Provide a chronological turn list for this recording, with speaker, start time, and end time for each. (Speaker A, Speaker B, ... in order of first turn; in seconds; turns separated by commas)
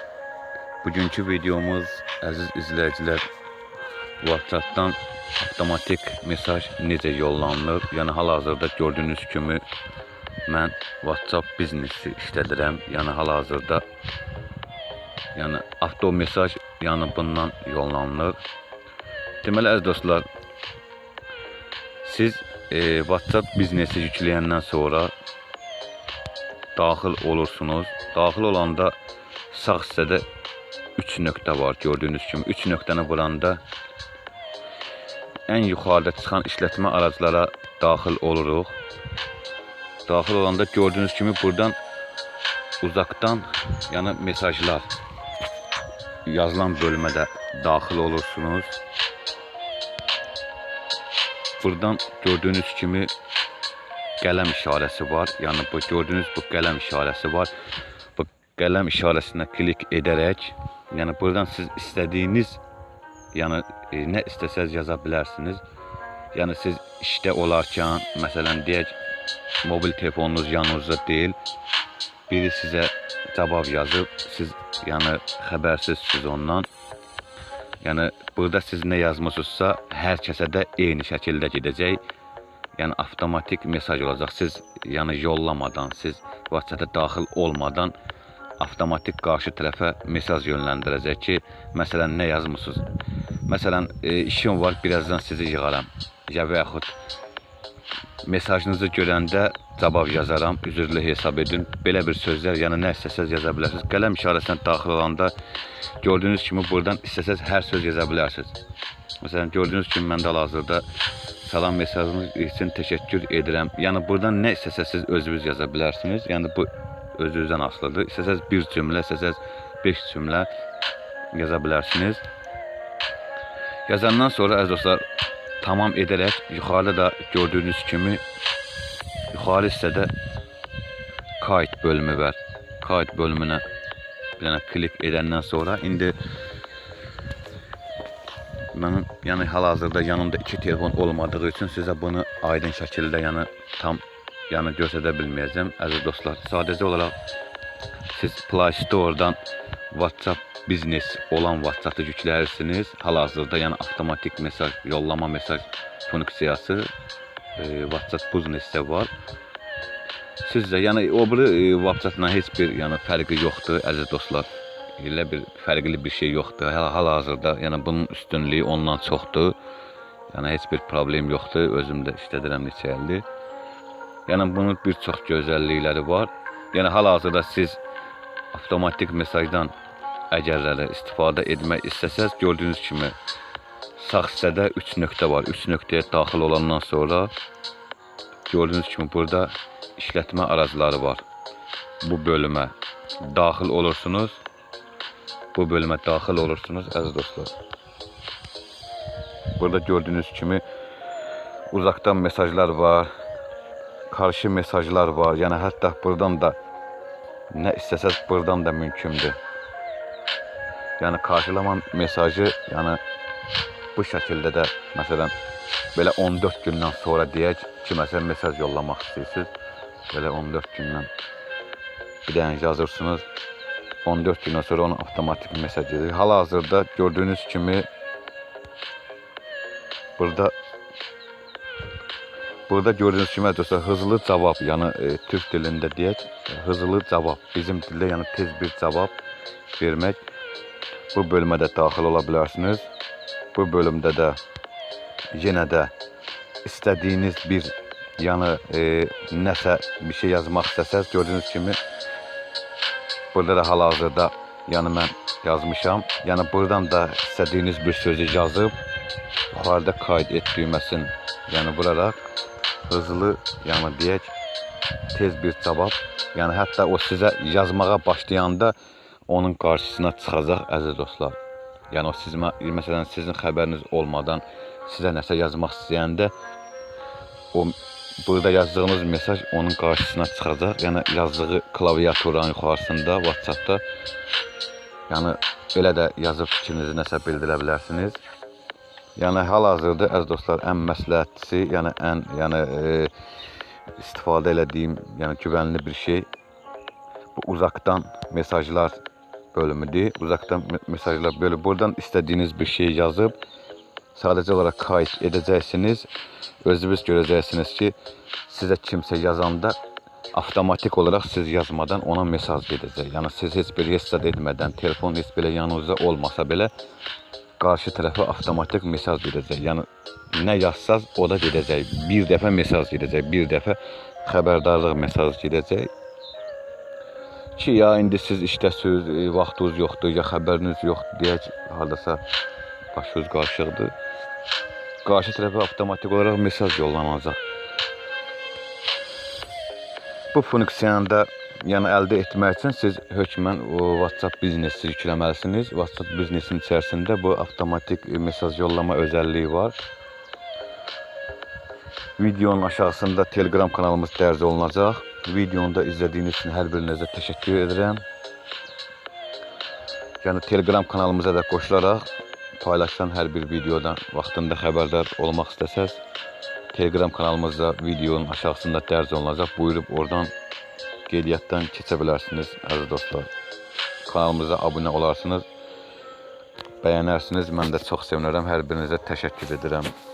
Speaker A: 0.8-3.3, Speaker A: 4.2-9.6, Speaker A: 10.5-13.8, Speaker A: 15.3-18.4, Speaker A: 19.4-20.2, Speaker A: 22.0-25.1, Speaker A: 26.8-28.9, Speaker A: 29.5-30.2, Speaker A: 31.0-33.6, Speaker A: 35.5-38.8, Speaker A: 40.1-41.8, Speaker A: 42.8-44.9, Speaker A: 46.3-48.8, Speaker A: 51.6-53.1, Speaker A: 54.2-57.5, Speaker A: 58.2-62.6, Speaker A: 63.3-65.6, Speaker A: 66.3-69.0, Speaker A: 69.6-71.4, Speaker A: 72.3-76.7, Speaker A: 77.8-82.0, Speaker A: 82.8-87.9, Speaker A: 88.6-92.9, Speaker A: 93.5-96.9, Speaker A: 98.2-105.3, Speaker A: 106.0-108.5, Speaker A: 109.2-110.8, Speaker A: 111.4-120.5, Speaker A: 121.3-122.2, Speaker A: 123.9-125.0, Speaker A: 125.6-128.2, Speaker A: 129.3-130.1, Speaker A: 131.4-133.6, Speaker A: 134.4-136.2, Speaker A: 138.7-147.2, Speaker A: 148.1-149.4, Speaker A: 149.9-156.9, Speaker A: 157.6-159.1, Speaker A: 160.4-169.6, Speaker A: 170.3-173.2, Speaker A: 174.3-177.8, Speaker A: 178.5-179.7, Speaker A: 180.3-183.1, Speaker A: 184.0-187.3, Speaker A: 188.5-191.2, Speaker A: 192.0-194.4, Speaker A: 195.5-197.5, Speaker A: 199.6-200.6, Speaker A: 201.7-203.1, Speaker A: 204.1-206.6, Speaker A: 207.5-209.4, Speaker A: 211.0-213.0, Speaker A: 213.9-215.3, Speaker A: 215.9-219.5, Speaker A: 220.1-221.1, Speaker A: 222.3-223.3, Speaker A: 224.0-227.9, Speaker A: 230.2-230.5, Speaker A: 232.7-239.1, Speaker A: 239.8-240.2, Speaker A: 241.1-242.9, Speaker A: 243.5-244.4, Speaker A: 245.3-245.9, Speaker A: 246.6-251.8, Speaker A: 253.3-258.7, Speaker A: 259.5-262.2, Speaker A: 262.9-264.3, Speaker A: 265.1-268.7, Speaker A: 269.3-271.4, Speaker A: 271.9-276.3, Speaker A: 277.5-283.8, Speaker A: 285.1-288.2, Speaker A: 289.2-293.1, Speaker A: 294.0-296.3, Speaker A: 297.4-299.0, Speaker A: 299.5-303.4, Speaker A: 304.1-306.1, Speaker A: 306.6-307.9, Speaker A: 308.5-309.8, Speaker A: 310.3-316.7, Speaker A: 317.6-325.9, Speaker A: 327.6-332.2, Speaker A: 332.9-333.9, Speaker A: 335.0-337.4, Speaker A: 340.3-349.8, Speaker A: 352.2-358.0, Speaker A: 360.2-362.1, Speaker A: 362.6-366.0, Speaker A: 366.7-370.3, Speaker A: 371.1-373.3, Speaker A: 374.1-375.4, Speaker A: 376.8-379.9